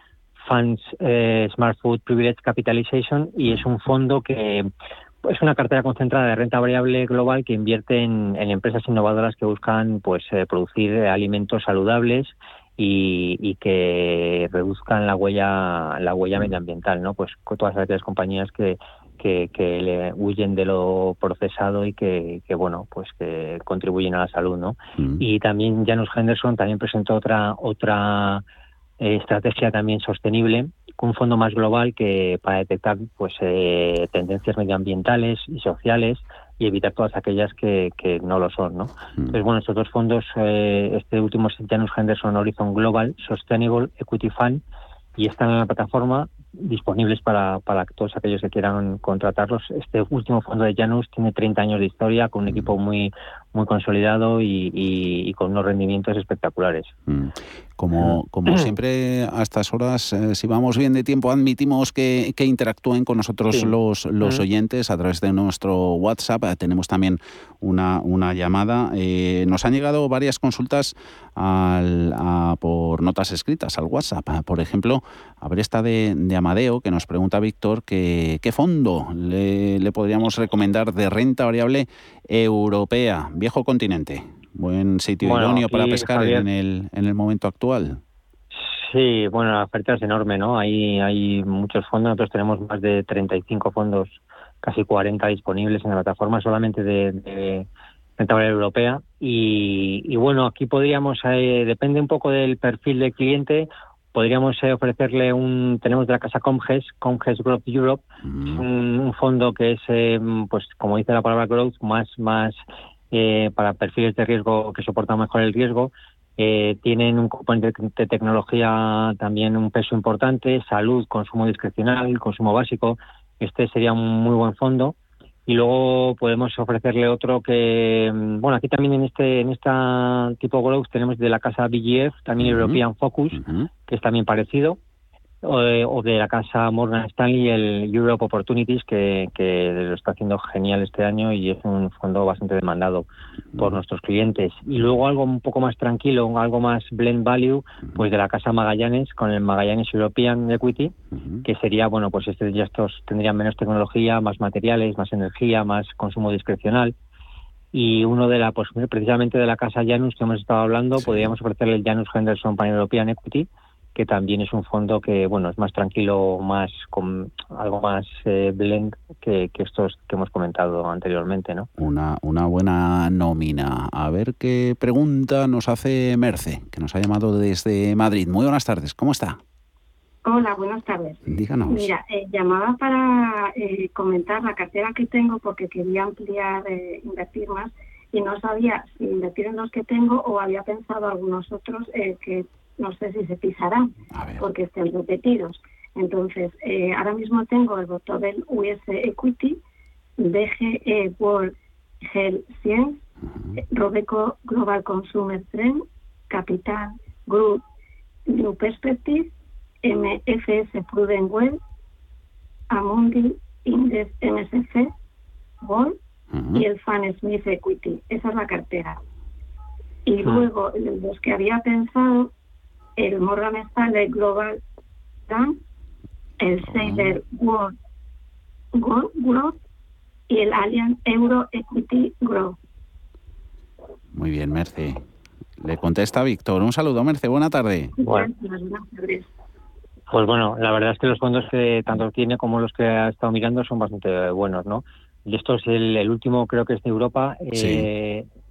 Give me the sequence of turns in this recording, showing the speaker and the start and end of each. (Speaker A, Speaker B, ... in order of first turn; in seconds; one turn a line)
Speaker A: 0.4-4.7
Speaker A: 5.2-28.4
Speaker B: 25.0-25.2
Speaker A: 29.0-44.6
Speaker A: 45.2-56.9
Speaker B: 57.1-88.0
Speaker A: 58.0-58.7
Speaker A: 63.5-64.4
Speaker A: 85.2-86.5
Speaker A: 88.5-112.6
Speaker B: 108.2-108.6
Speaker A: 113.1-124.9
Speaker A: 125.5-134.8
Speaker B: 132.4-132.8
Speaker B: 133.3-133.7
Speaker A: 135.4-156.9
Speaker B: 151.1-151.4
Speaker A: 157.7-171.7
Speaker B: 161.0-161.3
Speaker B: 171.8-179.4
Speaker C: 180.2-199.6
Speaker B: 181.3-181.9
Speaker B: 194.1-194.4
Speaker C: 200.2-203.0
Speaker C: 203.6-207.6
Speaker C: 208.3-209.3
Speaker C: 209.8-211.6
Speaker C: 212.7-214.9
Speaker C: 215.6-216.0
Speaker B: 216.3-216.6
Speaker C: 216.5-219.0
Speaker C: 220.1-222.3
Speaker C: 223.0-224.6
Speaker C: 225.3-225.6
Speaker C: 226.4-227.7
Speaker B: 226.7-227.2
Speaker C: 228.7-229.6
Speaker C: 230.3-232.6
Speaker B: 234.1-235.0
Speaker B: 235.6-238.0
Speaker C: 238.0-239.3
Speaker A: 238.0-238.3
Speaker A: 240.1-248.2
Speaker B: 247.5-247.9